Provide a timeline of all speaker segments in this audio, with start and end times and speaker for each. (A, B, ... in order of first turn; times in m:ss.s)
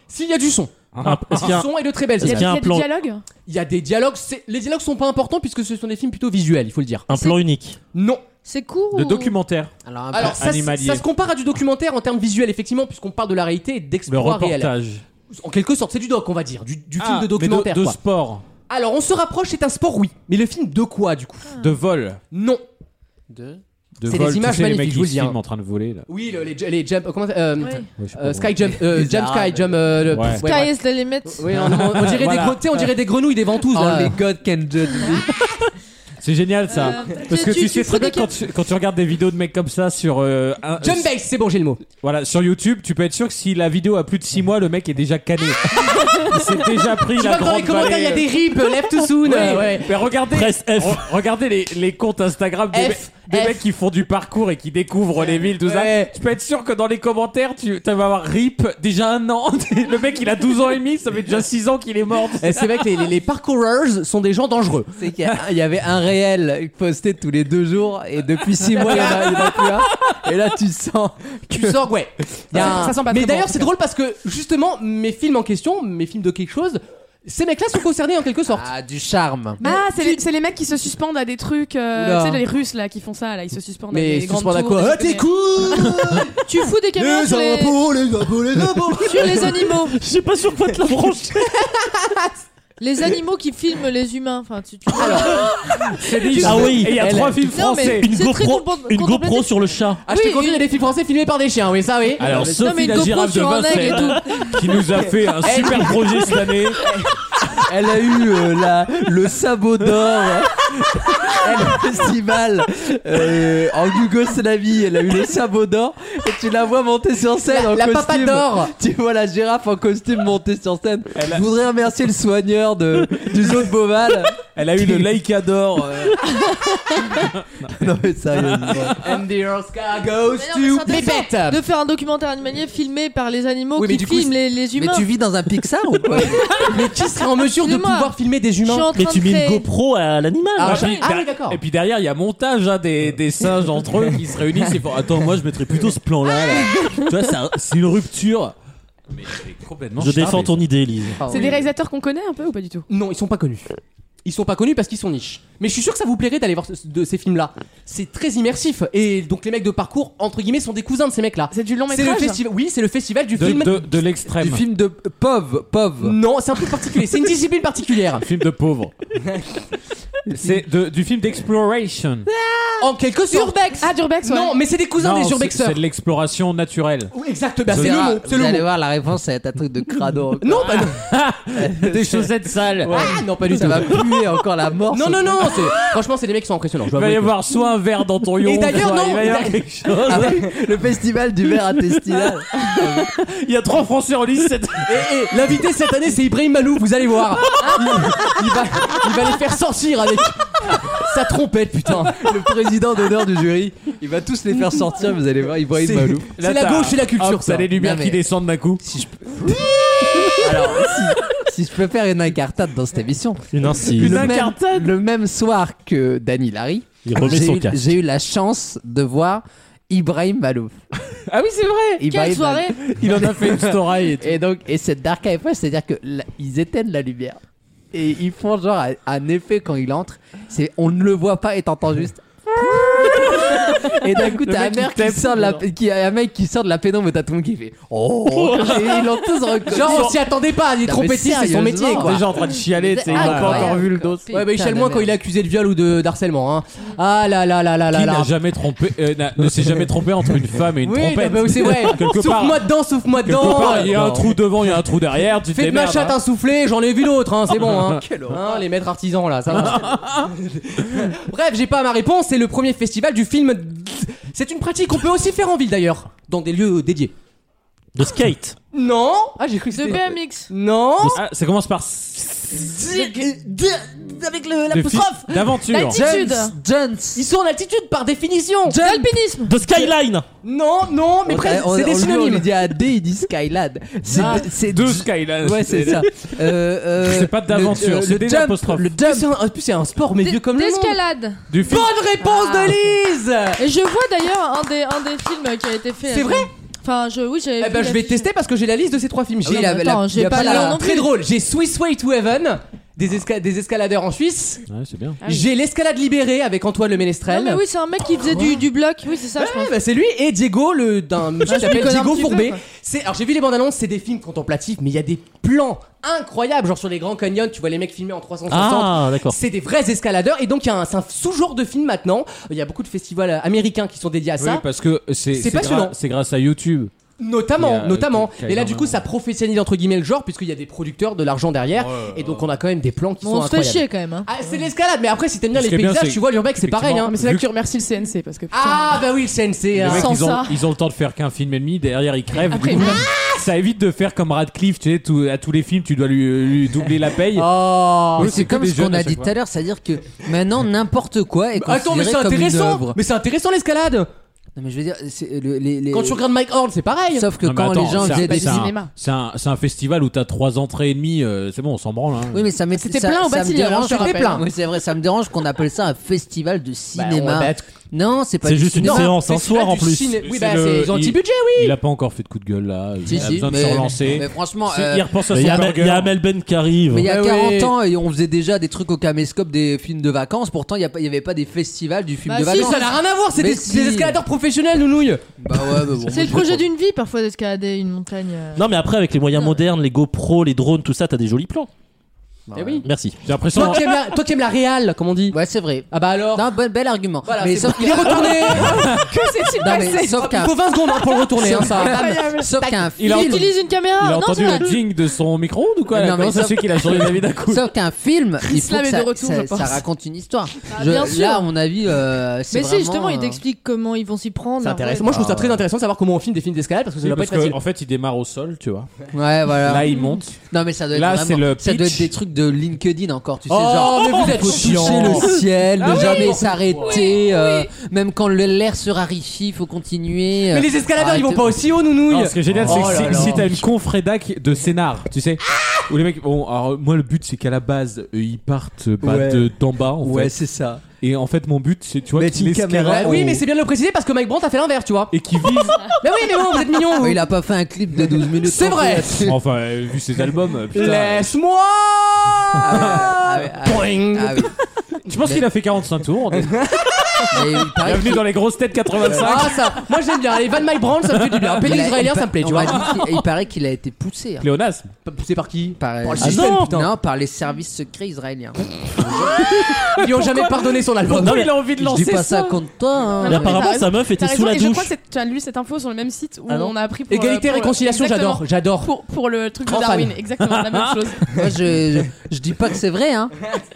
0:00.1-0:00.7 A
0:01.0-0:01.6 B
0:01.0-0:02.9 C
0:01.4-0:02.6 A
0:02.2-0:03.2 D
0:03.5-0:07.1 A
0:07.1-0:07.8 C
0:07.1-0:07.4 E
0:07.9-0:08.2 A
0:08.4-0:09.4 E
0:08.9-0:11.0 B
0:09.8-0:10.4 F
0:10.1-0:14.7 A
0:14.1-0:15.0 B
0:15.3-0:18.0 A
0:17.0-0:18.4 B
0:18.7-0:21.6 A
0:21.6-0:22.2 B
0:22.3-0:22.6 A
0:23.3-0:23.6 F
0:24.0-0:26.1 B
0:24.1-0:25.4 A
0:26.1-0:34.2 A
0:27.6-0:27.9 E
0:28.0-0:28.6 B
0:28.8-0:30.1 F
0:30.1-0:30.4 B
0:30.4-0:31.4 E
0:31.5-0:32.9 B
0:33.7-0:35.3 F
0:36.2-0:41.1 B
0:36.7-0:38.3 E
0:40.8-0:41.8 A
0:42.0-0:48.3 B
0:47.2-0:50.0 A
0:49.2-1:02.8 B
0:50.3-0:51.0 C
0:52.7-0:53.6 A
0:55.6-0:56.1 A
1:02.4-1:05.0 A
1:05.0-1:11.8 F
1:08.8-1:09.9 A
1:09.0-1:09.4 B
1:11.5-1:18.7 A
1:12.5-1:12.8 F
1:12.6-1:13.7 D
1:18.5-1:19.6 F
1:19.6-1:25.2 D
1:19.6-1:20.2 E
1:23.9-1:26.4 A
1:25.2-1:26.3 F
1:26.4-1:27.8 E
1:27.0-1:29.7 F
1:28.7-1:29.5 A
1:29.0-1:30.0 E
1:29.9-1:31.4 C
1:30.9-1:32.3 A
1:32.8-1:35.5 E
1:35.0-1:35.5 A
1:35.9-1:38.1 B
1:36.2-1:37.4 A
1:36.4-1:37.1 C
1:37.4-1:39.5 E
1:38.0-1:40.0 C
1:40.1-1:40.6 E
1:40.1-1:42.5 A
1:42.2-1:46.9 B
1:42.2-1:42.5 F
1:42.4-1:44.6 E
1:45.4-1:47.1 A
1:47.7-2:05.1 F
1:51.4-1:51.8 A
1:57.5-1:58.7 A
2:01.2-2:01.5 B
2:04.6-2:06.2 B
2:07.7-2:09.0 F
2:08.4-2:09.0 B
2:09.0-2:11.6 A
2:10.4-2:15.1 E
2:13.8-2:14.4 A
2:14.8-2:16.6 F
2:16.4-2:18.9 A
2:17.6-2:18.1 E
2:18.6-2:19.7 E
2:18.9-2:20.9 C
2:20.6-2:21.6 A
2:20.6-2:28.6 B
2:29.1-2:30.6 B
2:30.0-2:31.2 C
2:31.2-2:31.6 A
2:31.3-2:32.9 D
2:32.9-2:33.7 A
2:34.2-2:43.9 A
2:41.5-2:42.4 D
2:43.4-2:44.6 B
2:44.3-2:46.2 F
2:46.0-2:48.2 A
2:48.2-2:49.0 B
2:49.3-2:49.6 A
2:50.3-2:52.3 B
2:50.3-2:50.6 F
2:52.8-2:55.8 A
2:53.3-2:54.6 D
2:55.0-2:57.1 B
2:57.1-2:58.6 A
2:57.7-2:58.1 B
2:57.7-3:00.9 F
3:00.4-3:01.0 A
3:01.1-3:03.8 B
3:01.5-3:05.6 F
3:02.9-3:04.0 A
3:04.9-3:07.3 A
3:06.9-3:10.5 B
3:08.4-3:10.5 A
3:10.1-3:13.1 F
3:12.5-3:15.1 B
3:14.9-3:22.3 A
3:17.7-3:18.0 B
3:22.1-3:26.3 F
3:25.7-3:27.7 A
3:26.4-3:28.8 B
3:27.7-3:28.2 F
3:28.8-3:40.8 F
3:33.5-3:34.3 C
3:33.9-3:34.9 B
3:37.0-3:37.8 C
3:41.3-3:42.0 B
3:42.0-3:47.4 F
3:42.0-3:42.8 E
3:42.8-3:44.4 B
3:47.9-4:00.2 F
3:53.6-3:55.6 B
3:58.3-3:59.1 B
3:59.7-4:02.2 A
3:59.8-4:00.1 B
4:00.8-4:05.2 F
4:02.0-4:04.2 B
4:03.1-4:03.8 A
4:03.1-4:03.8 E
4:04.3-4:08.3 A
4:07.9-4:12.7 B
4:10.8-4:14.3 A
4:13.2-4:16.2 B
4:13.4-4:14.3 F
4:15.5-4:27.1 A
4:17.5-4:18.0 B
4:17.5-4:18.6 F
4:19.5-4:20.3 B
4:28.0-4:28.6 C
4:28.7-4:31.2 A
4:29.7-4:30.5 E
4:31.0-4:32.8 B
4:32.8-4:37.2 F
4:34.7-4:36.0 B
4:35.7-4:36.5 D
4:37.2-4:38.8 A
4:38.6-4:39.1 F
4:38.8-4:39.6 E
4:39.4-4:40.2 C
4:40.4-4:42.5 A
4:41.3-4:49.3 F
4:44.1-4:44.5 A
4:44.5-4:46.3 B
4:47.0-4:48.9 B
4:48.9-4:51.0 A
4:50.2-4:51.4 E
4:51.5-4:51.9 B
4:51.6-4:53.6 A
4:52.4-4:52.7 D
4:53.6-4:58.3 E
4:56.1-4:56.5 A
4:57.6-5:04.6 A
4:59.4-5:00.8 F
4:59.5-5:01.1 E
5:04.7-5:05.2 B
5:05.2-5:05.5 D
5:05.2-5:07.6 A
5:07.3-5:09.7 E
5:08.3-5:08.6 A
5:09.4-5:24.6 A
5:11.5-5:12.6 E
5:18.5-5:19.4 C
5:24.4-5:26.9 B
5:25.3-5:26.0 A
5:27.2-5:37.2 A
5:27.6-5:29.0 B
5:31.7-5:32.5 B
5:33.2-5:34.3 E
5:35.5-5:37.4 B
5:37.1-5:39.0 D
5:38.5-5:40.1 A
5:39.8-5:47.5 B
5:40.1-5:40.4 D
5:42.5-5:43.0 D
5:47.4-5:48.5 A
5:48.2-5:49.3 B
5:48.2-5:53.0 F
5:51.6-5:54.1 A
5:54.6-5:56.2 F
5:55.9-5:57.3 A
5:57.1-5:58.7 F
5:57.4-6:02.5 B
5:58.1-5:58.9 D
6:02.3-6:09.1 F
6:02.9-6:04.4 D
6:03.1-6:04.4 A
6:07.0-6:07.7 A
6:08.4-6:10.2 C
6:08.8-6:11.8 A
6:10.2-6:16.1 B
6:13.0-6:15.2 F
6:15.3-6:17.1 C
6:16.9-6:24.2 F
6:17.0-6:17.8 A
6:22.3-6:22.8 E
6:22.5-6:25.3 A
6:25.4-6:26.7 F
6:26.1-6:28.6 E
6:28.6-6:31.7 C
6:32.5-6:32.9 F
6:32.5-6:32.9 A
6:32.8-6:33.2 C
6:33.2-6:34.0 B
6:33.5-6:35.4 A
6:35.3-6:38.8 F
6:35.9-6:36.5 A
6:37.2-6:38.9 A
6:38.5-6:42.5 D
6:39.6-6:40.6 F
6:39.9-6:42.9 A
6:41.3-6:43.5 F
6:43.0-6:47.6 B
6:43.0-6:44.7 E
6:45.9-6:53.4 F
6:48.4-6:49.8 D
6:50.7-6:51.5 E
6:52.5-6:55.2 E
6:54.6-6:57.6 A
6:55.2-6:55.5 B
6:57.0-6:58.9 B
6:59.1-6:59.9 F
6:59.6-7:00.4 B
7:00.5-7:11.6 F
7:00.9-7:02.1 B
7:03.5-7:07.0 A
7:04.8-7:05.1 B
7:05.9-7:06.1 D
7:06.9-7:07.4 D
7:10.5-7:13.6 A
7:12.1-7:20.4 B
7:12.5-7:13.6 F
7:19.0-7:20.8 F
7:21.0-7:23.4 B
7:22.2-7:23.4 F
7:22.9-7:25.1 A
7:25.1-7:26.0 B
7:25.9-7:27.2 A
7:27.0-7:29.4 F
7:28.4-7:29.3 A
7:29.3-7:31.3 B
7:30.7-7:34.5 A
7:32.6-7:34.5 F
7:32.7-7:33.1 B
7:35.1-7:36.7 B
7:36.3-7:37.3 A
7:37.3-7:38.3 F
7:37.8-7:39.9 B
7:39.0-7:42.9 A
7:41.1-7:41.7 B
7:41.6-7:44.5 F
7:42.5-7:43.3 B
7:44.4-7:44.9 B
7:45.0-7:46.9 A
7:45.8-7:49.6 F
7:46.2-7:46.7 C
7:49.4-7:52.6 B
7:49.9-7:51.4 A
7:51.2-7:51.5 C
7:51.6-7:53.7 F
7:53.2-8:01.3 D
7:53.3-7:54.9 C
7:56.5-7:56.7 C
7:57.1-7:58.9 A
7:59.7-8:00.1 A
8:00.4-8:01.0 B
8:01.3-8:03.4 F